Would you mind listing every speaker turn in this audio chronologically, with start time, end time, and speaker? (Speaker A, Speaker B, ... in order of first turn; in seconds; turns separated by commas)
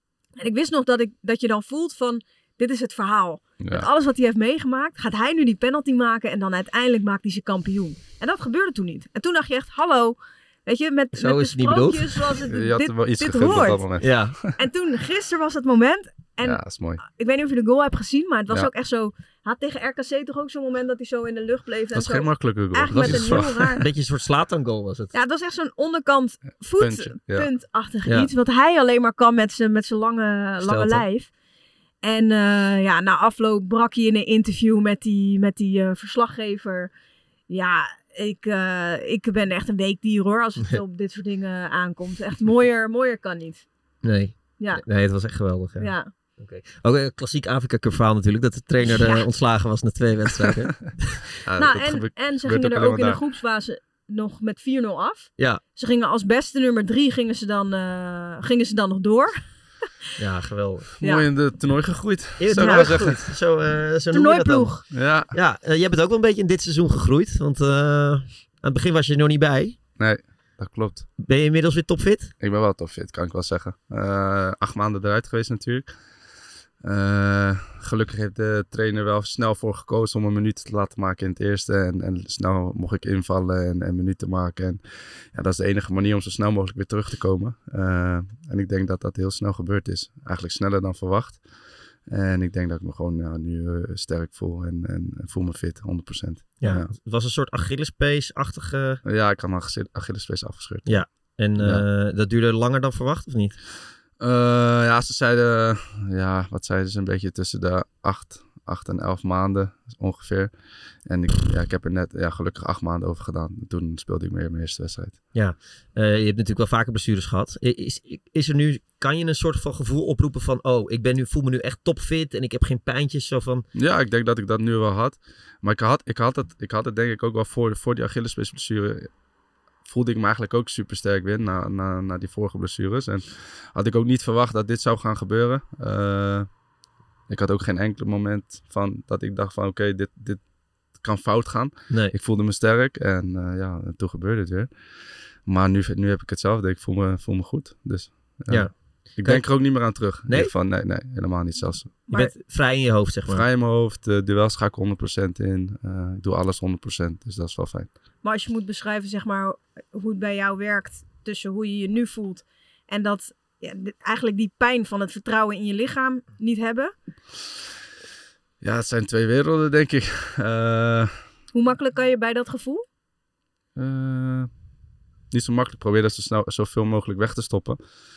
Speaker A: 0.4-13.8, Speaker B: 3.6-3.9, Speaker C: 11.2-12.4, Speaker B: 12.5-14.5, Speaker C: 14.0-14.4, Speaker A: 14.5-23.9, Speaker B: 16.4-17.0, Speaker B: 21.9-23.8, Speaker C: 23.0-25.1, Speaker A: 25.1-31.3, Speaker B: 26.8-27.5, Speaker C: 30.6-31.0, Speaker A: 32.0-36.9, Speaker A: 37.5-43.6, Speaker C: 44.0-51.3, Speaker A: 45.8-46.1, Speaker B: 51.5-53.2, Speaker A: 51.6-59.4, Speaker C: 60.2-60.9, Speaker B: 61.0-63.2, Speaker A: 61.0-61.3, Speaker C: 62.4-69.8, Speaker A: 62.6-63.0, Speaker A: 64.1-64.8, Speaker B: 64.9-65.3, Speaker B: 70.0-71.1, Speaker C: 71.2-72.3, Speaker B: 72.4-75.9, Speaker B: 76.8-84.8, Speaker B: 85.3-91.4, Speaker B: 92.1-96.9, Speaker C: 96.6-99.0, Speaker B: 99.0-101.0, Speaker C: 100.9-103.6, Speaker B: 101.6-101.8, Speaker B: 104.2-110.5, Speaker B: 111.1-115.2, Speaker C: 115.3-123.7, Speaker B: 123.7-129.1, Speaker B: 129.8-136.5, Speaker B: 137.3-140.4, Speaker B: 140.9-144.7, Speaker B: 145.5-151.9, Speaker C: 148.5-150.5, Speaker C: 152.1-153.4, Speaker B: 153.3-157.9, Speaker A: 158.2-166.9, Speaker B: 168.6-171.1, Speaker A: 171.5-172.8, Speaker B: 173.8-174.5, Speaker B: 175.3-177.8